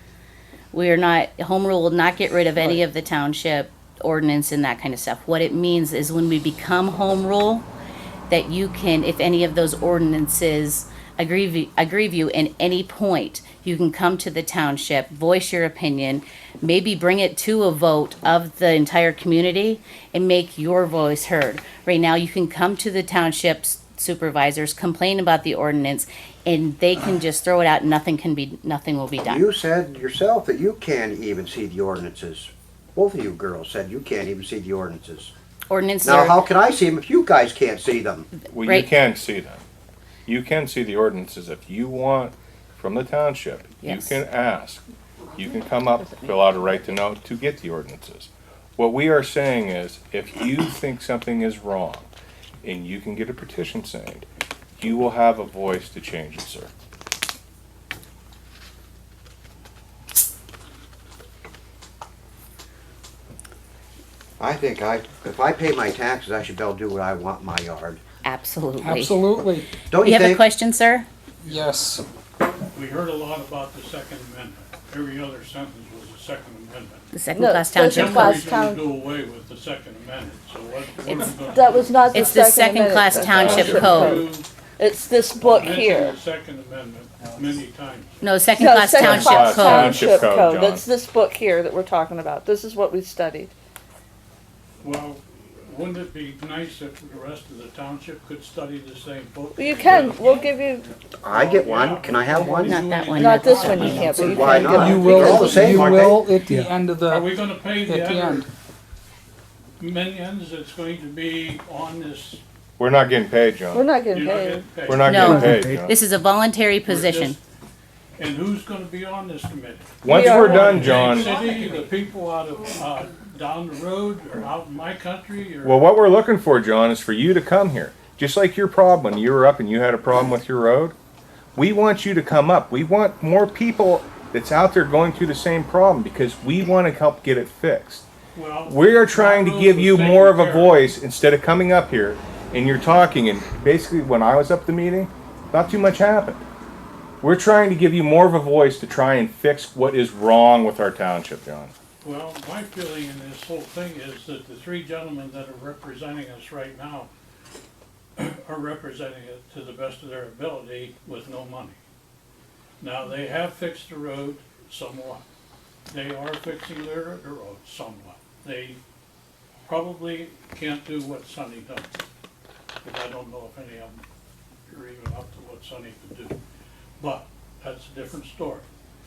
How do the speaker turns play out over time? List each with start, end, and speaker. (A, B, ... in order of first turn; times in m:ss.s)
0:00.7-0:07.7 A
0:08.3-0:29.4 A
0:29.3-0:35.3 B
0:35.7-0:36.4 A
0:36.0-0:38.3 B
0:38.5-0:39.6 C
0:38.6-0:38.9 A
0:40.3-0:44.8 C
0:43.8-0:44.2 A
0:45.4-0:52.1 C
0:52.6-0:54.3 C
0:54.8-0:56.7 C
1:04.4-1:08.0 B
1:08.2-1:09.2 A
1:08.8-1:09.8 D
1:09.9-1:10.4 B
1:10.0-1:11.1 A
1:11.4-1:12.0 D
1:12.6-1:17.1 E
1:17.1-1:18.4 A
1:17.4-1:18.8 F
1:17.8-1:22.5 E
1:21.5-1:26.2 F
1:22.1-1:24.2 A
1:23.2-1:24.5 E
1:23.4-1:23.8 C
1:25.4-1:28.2 E
1:28.2-1:30.0 A
1:28.6-1:33.5 F
1:28.9-1:30.8 C
1:29.1-1:30.3 E
1:34.8-1:40.5 E
1:39.6-1:40.9 F
1:41.2-1:42.8 B
1:41.3-1:45.6 E
1:42.6-1:44.9 A
1:43.2-1:45.6 F
1:44.2-1:46.3 B
1:44.7-1:48.5 D
1:47.0-1:48.5 E
1:49.8-1:52.4 E
1:52.8-1:53.9 C
1:53.7-1:54.7 F
1:54.1-1:55.5 E
1:54.8-1:56.0 C
1:55.0-1:57.4 A
1:56.9-1:57.4 E
1:58.2-2:05.8 E
2:00.0-2:01.4 C
2:00.1-2:00.6 F
2:05.6-2:11.0 C
2:11.6-2:18.1 C
2:18.3-2:20.9 E
2:18.7-2:26.4 C
2:27.2-2:31.7 C
2:32.0-2:37.1 E
2:38.2-2:41.8 E
2:42.8-2:45.2 E
2:45.9-2:48.8 E
2:49.6-2:52.0 E
2:52.8-2:54.0 E
2:54.7-2:56.4 E
2:57.0-2:58.7 E